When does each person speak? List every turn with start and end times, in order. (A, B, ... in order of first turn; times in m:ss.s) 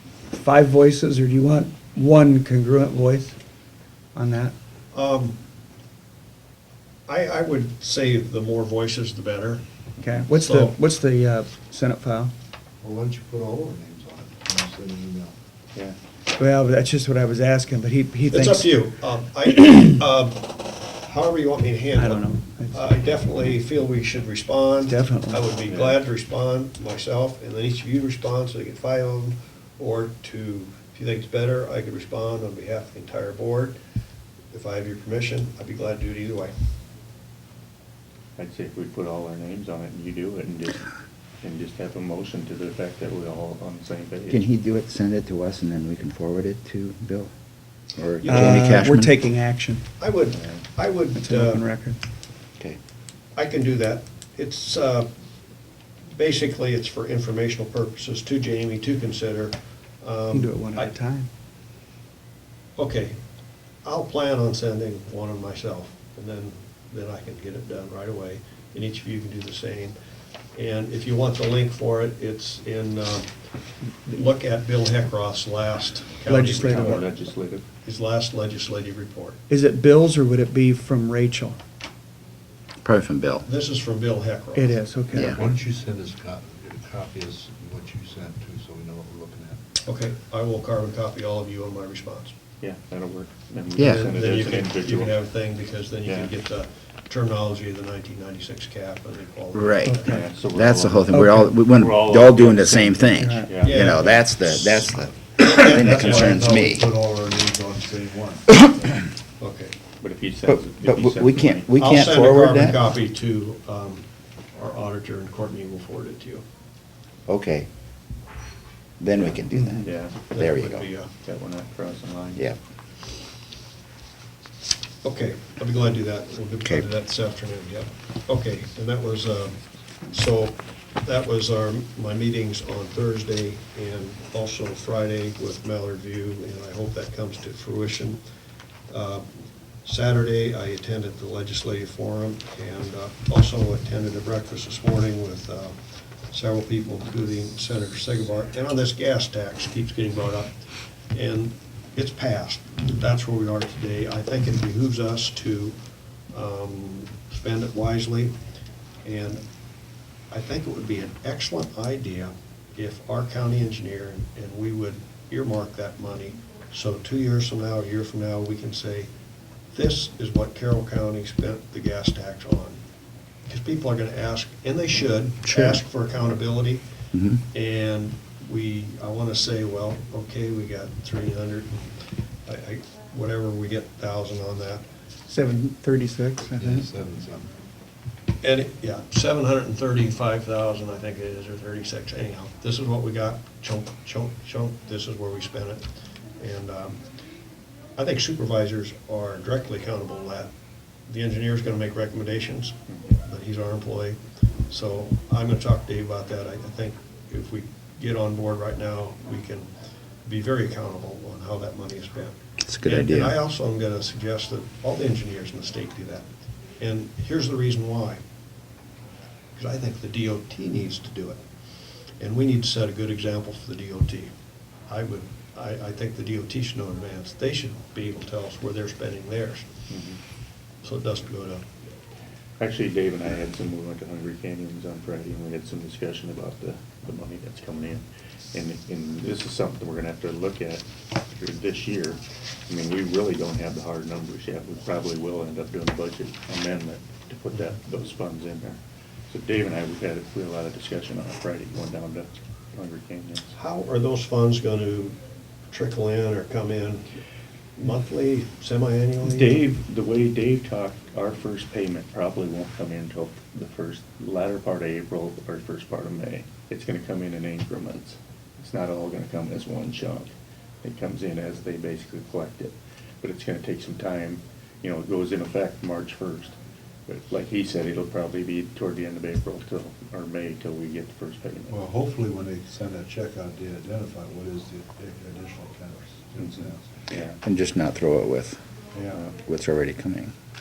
0:00.3-0:03.4 A
0:04.1-0:04.5 A
0:04.9-0:05.4 B
0:07.1-0:09.6 B
0:10.0-0:12.3 A
0:10.3-0:10.7 B
0:12.8-0:15.4 C
0:16.4-0:18.8 A
0:18.3-0:33.8 B
0:21.9-0:22.9 A
0:24.8-0:25.4 A
0:25.6-0:26.0 D
0:34.5-0:36.5 B
0:38.4-0:40.9 D
0:41.4-0:44.4 D
0:44.3-0:47.3 E
0:47.9-0:49.1 E
0:48.2-0:48.8 B
0:48.2-0:49.9 A
0:50.0-0:51.6 B
0:50.3-0:50.6 D
0:51.1-0:52.0 A
0:53.3-0:55.1 B
0:56.1-1:00.9 B
1:00.3-1:01.3 A
1:02.8-1:03.2 B
1:03.8-1:09.9 B
1:10.5-1:13.3 B
1:14.0-1:17.1 B
1:16.2-1:17.0 A
1:16.6-1:17.6 D
1:17.8-1:19.4 B
1:19.5-1:21.6 A
1:22.8-1:23.4 E
1:23.4-1:24.9 B
1:24.5-1:25.4 A
1:25.1-1:25.4 E
1:25.1-1:29.6 C
1:29.8-1:32.3 B
1:32.6-1:35.3 D
1:33.8-1:34.1 E
1:34.0-1:40.1 B
1:36.0-1:36.3 D
1:39.5-1:46.8 E
1:39.8-1:40.2 A
1:40.0-1:44.0 D
1:41.1-1:41.5 A
1:43.2-1:43.5 A
1:43.6-1:46.5 B
1:46.2-1:48.6 C
1:49.4-1:49.8 B
1:50.0-1:51.6 D
1:50.5-1:52.8 E
1:51.8-1:56.4 B
1:57.3-1:57.7 E
1:59.0-2:00.9 E
1:59.2-2:00.2 D
2:00.3-2:01.1 B
2:01.2-2:02.4 D
2:05.0-2:09.6 B
2:10.1-2:18.2 B
2:18.9-2:19.2 B
2:19.8-2:25.7 B
2:26.3-2:30.5 B
2:31.1-2:35.8 B
2:36.3-2:38.3 B
2:39.0-2:39.4 B
2:40.3-2:49.1 B
2:49.7-2:52.8 B
2:53.4-2:56.8 B
2:55.5-2:55.8 E
2:57.1-2:57.4 E
2:57.5-3:01.9 B
3:02.4-3:04.8 B
3:05.3-3:06.8 A
3:06.6-3:07.5 C
3:08.4-3:15.8 B
3:16.4-3:17.0 B
3:18.0-3:20.5 B
3:21.1-3:24.2 B
3:24.7-3:29.7 B
3:30.2-3:36.3 B
3:32.6-3:33.4 E
3:36.8-3:38.2 B
3:39.5-3:41.4 B
3:42.2-3:44.3 B
3:44.9-3:49.7 B
3:49.9-3:50.2 D
3:50.8-3:51.6 B
3:52.6-3:58.0 D
3:58.5-4:08.8 D
4:09.3-4:13.5 D
4:13.5-4:15.2 B
4:15.7-4:17.1 B
4:17.8-4:19.6 B
4:19.2-4:30.3 D
4:30.8-4:36.5 D
4:37.1-4:41.8 D
4:41.7-4:46.9 C
4:46.4-4:47.4 D
4:47.4-4:48.6 E
4:48.9-4:49.2 C
4:49.4-4:50.3 E